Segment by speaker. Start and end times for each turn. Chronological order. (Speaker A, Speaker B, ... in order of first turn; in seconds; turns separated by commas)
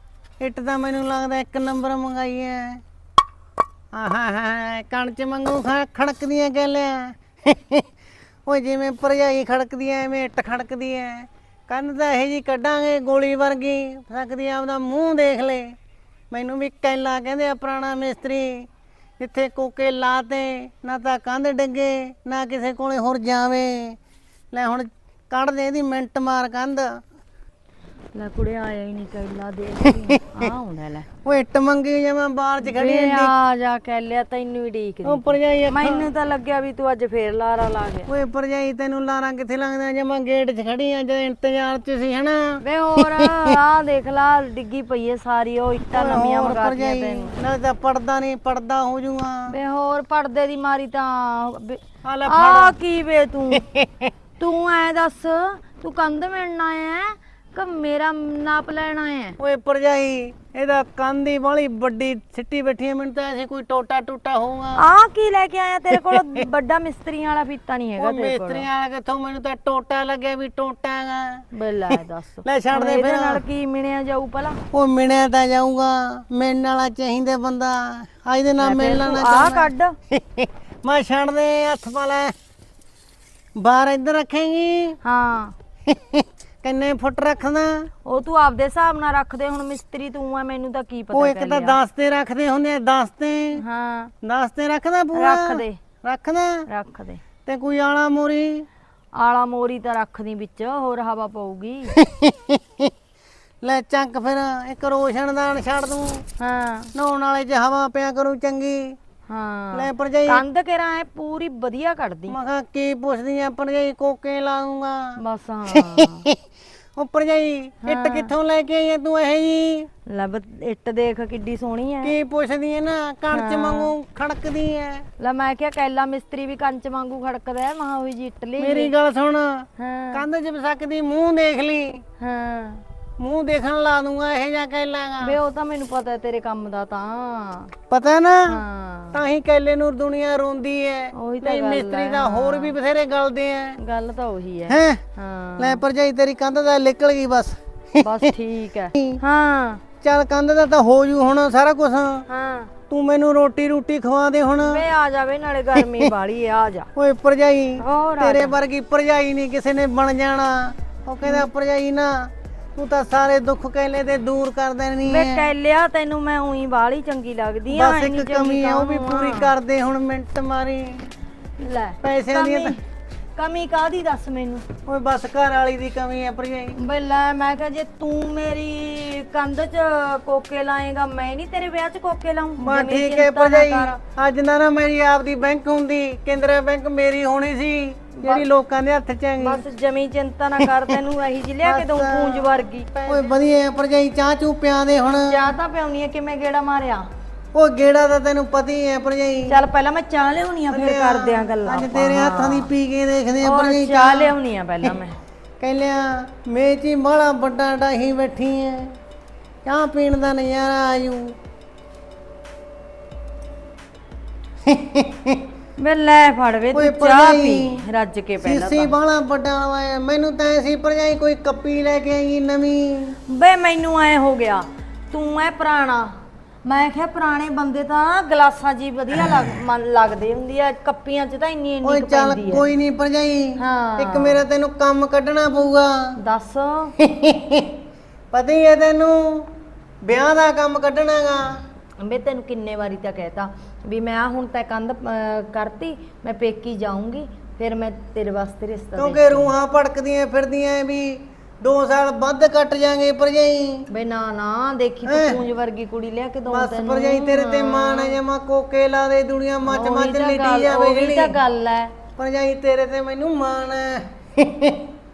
Speaker A: 0.4-2.8, Speaker A: 3.9-7.8, Speaker A: 8.4-15.7, Speaker A: 16.3-18.7, Speaker A: 19.2-24.0, Speaker A: 24.5-27.0, Speaker B: 28.1-31.1, Speaker A: 31.2-33.3, Speaker B: 32.6-38.1, Speaker A: 35.0-36.0, Speaker A: 38.1-43.6, Speaker B: 42.6-47.4, Speaker A: 45.9-49.6, Speaker B: 49.5-53.6, Speaker A: 52.0-52.8, Speaker A: 53.5-54.1, Speaker B: 54.4-59.4, Speaker A: 59.4-64.8, Speaker B: 64.8-68.7, Speaker A: 65.9-66.4, Speaker A: 68.0-73.4, Speaker B: 71.5-74.6, Speaker A: 74.7-82.3, Speaker B: 78.6-80.0, Speaker A: 83.5-85.0, Speaker B: 85.0-85.5, Speaker A: 85.9-87.9, Speaker B: 88.0-91.8, Speaker A: 91.1-93.6, Speaker B: 93.6-94.1, Speaker A: 94.2-96.7, Speaker B: 95.1-95.8, Speaker B: 96.7-97.2, Speaker A: 97.4-98.7, Speaker B: 99.1-101.9, Speaker A: 102.0-102.9, Speaker A: 103.6-106.2, Speaker B: 106.4-106.9, Speaker A: 106.9-109.0, Speaker B: 109.3-112.4, Speaker A: 109.7-110.4, Speaker A: 112.3-115.2, Speaker B: 115.2-116.3, Speaker A: 115.7-116.3, Speaker A: 117.0-119.9, Speaker B: 117.8-118.3, Speaker B: 120.1-122.2, Speaker A: 122.0-125.1, Speaker B: 123.3-123.9, Speaker B: 125.2-128.9, Speaker A: 128.6-132.0, Speaker B: 129.8-130.2, Speaker B: 132.2-132.8, Speaker A: 133.2-135.4, Speaker B: 135.2-137.7, Speaker A: 137.9-138.6, Speaker B: 138.5-139.2, Speaker A: 139.1-143.8, Speaker B: 141.2-142.8, Speaker B: 143.8-145.8, Speaker A: 144.7-145.0, Speaker A: 145.6-148.3, Speaker B: 148.0-149.8, Speaker A: 148.9-149.2, Speaker A: 150.0-152.2, Speaker B: 152.3-152.7, Speaker A: 152.9-154.8, Speaker B: 154.6-156.9, Speaker A: 156.9-165.5, Speaker B: 157.8-158.6, Speaker B: 161.2-161.5, Speaker B: 165.0-169.5, Speaker A: 167.7-171.1, Speaker B: 171.6-172.8, Speaker A: 172.0-172.8, Speaker B: 173.3-174.7, Speaker A: 174.8-176.8, Speaker B: 176.8-184.0, Speaker A: 182.6-189.6, Speaker B: 188.2-188.4, Speaker B: 189.4-193.3, Speaker A: 191.6-192.5, Speaker A: 193.0-195.5, Speaker B: 195.2-197.1, Speaker A: 197.5-199.6, Speaker B: 199.5-202.7, Speaker A: 200.7-204.9, Speaker B: 203.4-205.2, Speaker A: 205.6-208.9, Speaker A: 209.6-211.3, Speaker A: 214.6-215.4, Speaker B: 215.8-218.9, Speaker A: 216.7-217.8, Speaker A: 218.4-223.2, Speaker B: 223.3-232.7, Speaker A: 231.8-236.2, Speaker B: 233.6-234.4, Speaker B: 236.2-236.9, Speaker A: 237.0-237.7, Speaker A: 238.3-239.5, Speaker A: 240.0-241.6, Speaker B: 242.0-249.5, Speaker A: 249.0-253.9, Speaker B: 253.9-258.2, Speaker A: 255.1-255.4, Speaker A: 256.5-261.4, Speaker B: 259.6-261.9, Speaker A: 262.2-264.8